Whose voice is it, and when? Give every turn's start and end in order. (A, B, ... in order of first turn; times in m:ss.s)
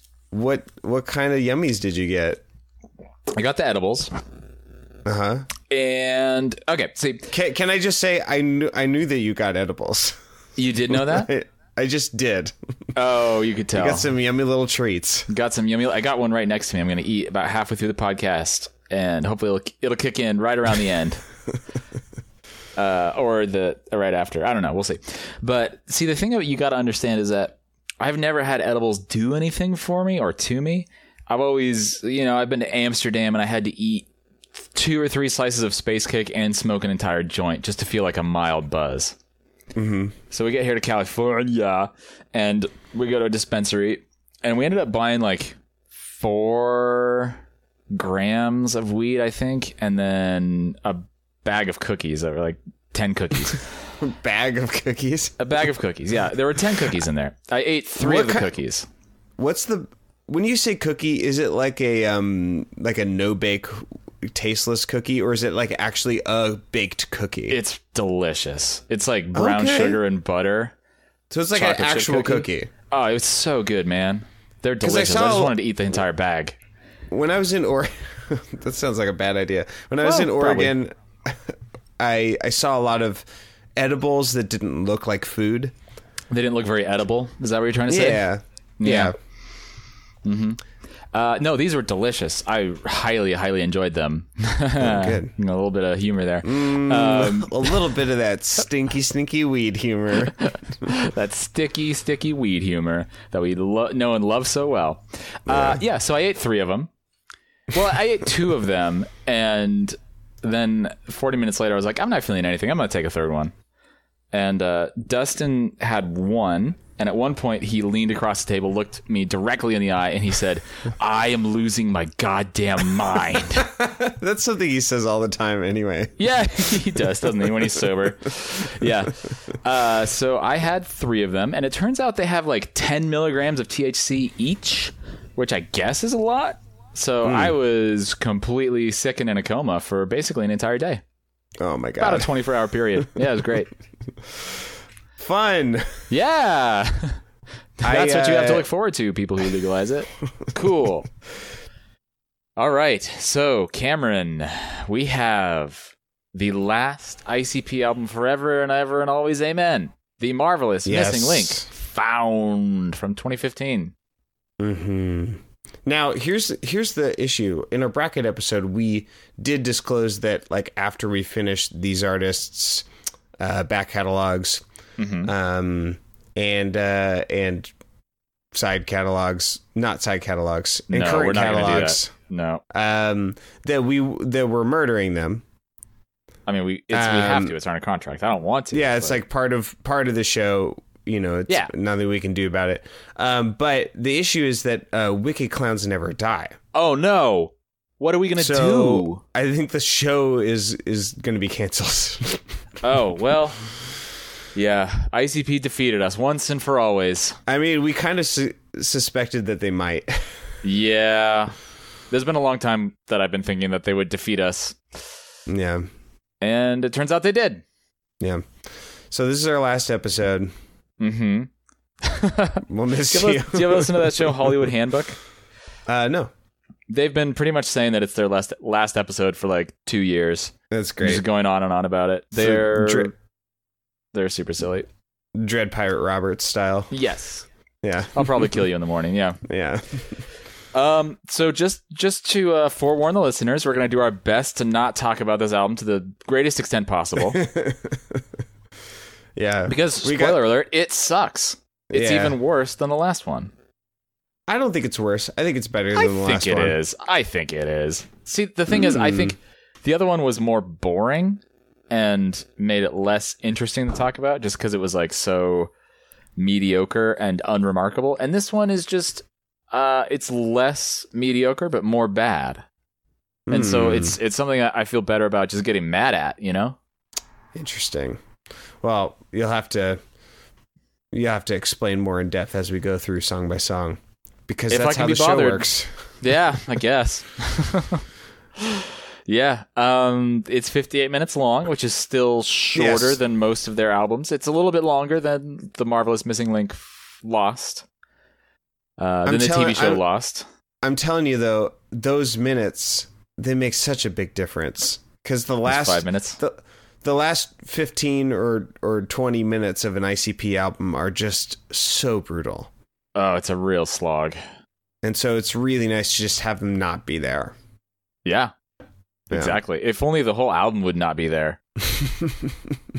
0:00.3-0:02.4 A
0:03.3-0:04.1 B
0:05.0-0:05.5 A
0:05.7-0:07.3 B
0:07.3-0:10.2 A
0:10.6-0:11.3 B
0:10.9-0:12.5 A
0:13.0-0:14.1 B
0:13.7-0:15.3 A
0:15.3-0:21.2 B
0:22.8-0:34.1 B
0:34.7-0:39.2 B
0:39.8-0:40.1 A
0:40.3-0:53.6 B
0:54.0-0:55.4 A
0:55.4-0:58.9 B
0:58.0-0:58.5 A
0:59.4-1:07.6 A
1:07.5-1:10.7 B
1:09.3-1:10.0 A
1:11.3-1:12.7 A
1:11.5-1:16.6 B
1:14.8-1:15.5 A
1:17.1-1:23.2 A
1:20.0-1:20.7 B
1:23.8-1:25.7 A
1:26.3-1:28.2 B
1:27.9-1:29.1 A
1:28.8-1:29.1 B
1:30.2-1:30.6 B
1:31.1-1:37.8 B
1:34.8-1:35.3 A
1:36.4-1:40.4 A
1:40.4-1:46.9 B
1:45.5-1:45.8 A
1:47.7-1:53.5 B
1:54.3-2:03.7 B
2:03.5-2:06.2 A
2:06.2-2:21.0 B
2:17.2-2:17.5 A
2:21.6-2:22.3 A
2:22.0-2:23.7 B
2:25.2-2:26.1 A
2:26.1-2:27.2 B
2:27.8-2:31.1 B
2:27.8-2:28.6 A
2:32.6-2:43.9 B
2:40.8-2:41.7 A
2:44.6-2:52.9 A
2:53.4-2:54.6 A
2:55.0-2:55.3 B
2:55.2-2:57.7 A
2:58.5-3:02.1 A
3:00.9-3:02.6 B
3:02.7-3:05.4 A
3:06.4-3:09.2 B
3:06.9-3:07.6 A
3:08.7-3:16.6 A
3:16.7-3:19.2 B
3:18.4-3:22.4 A
3:22.8-3:23.6 B
3:24.5-3:27.4 B
3:27.5-3:30.3 A
3:30.6-3:31.5 B
3:32.1-3:34.8 B
3:35.5-3:35.9 A
3:36.4-3:37.6 B
3:38.2-3:38.5 A
3:39.1-3:40.5 A
3:41.0-3:41.5 B
3:42.0-3:45.2 B
3:42.7-3:44.5 A
3:45.9-3:46.3 A
3:46.9-3:53.1 B
3:50.7-3:51.2 A
3:52.4-3:53.1 A
3:54.1-3:54.9 B
3:55.4-3:56.9 A
3:56.9-3:57.4 B
3:57.8-3:58.5 A
3:58.1-3:59.4 B
3:59.4-4:00.2 A
4:00.7-4:07.4 B
4:07.2-4:08.2 A
4:09.4-4:10.4 A
4:09.7-4:13.5 B
4:11.9-4:12.4 A
4:14.5-4:16.8 A
4:15.9-4:25.7 B
4:18.7-4:19.3 A
4:26.4-4:32.6 B
4:33.5-4:34.2 A
4:33.5-4:36.8 B
4:37.6-4:38.2 A
4:38.8-4:40.0 A
4:41.1-4:46.1 A
4:44.7-4:45.7 B
4:46.2-4:48.0 B
4:48.6-4:57.8 B
4:52.7-4:53.2 A
4:59.0-5:00.4 B
4:59.2-5:00.0 A
5:00.8-5:12.7 A
5:05.7-5:06.4 B
5:13.1-5:14.4 B
5:15.0-5:17.5 A
5:18.2-5:18.5 B
5:19.3-5:21.6 B
5:19.3-5:19.6 A
5:22.2-5:22.5 A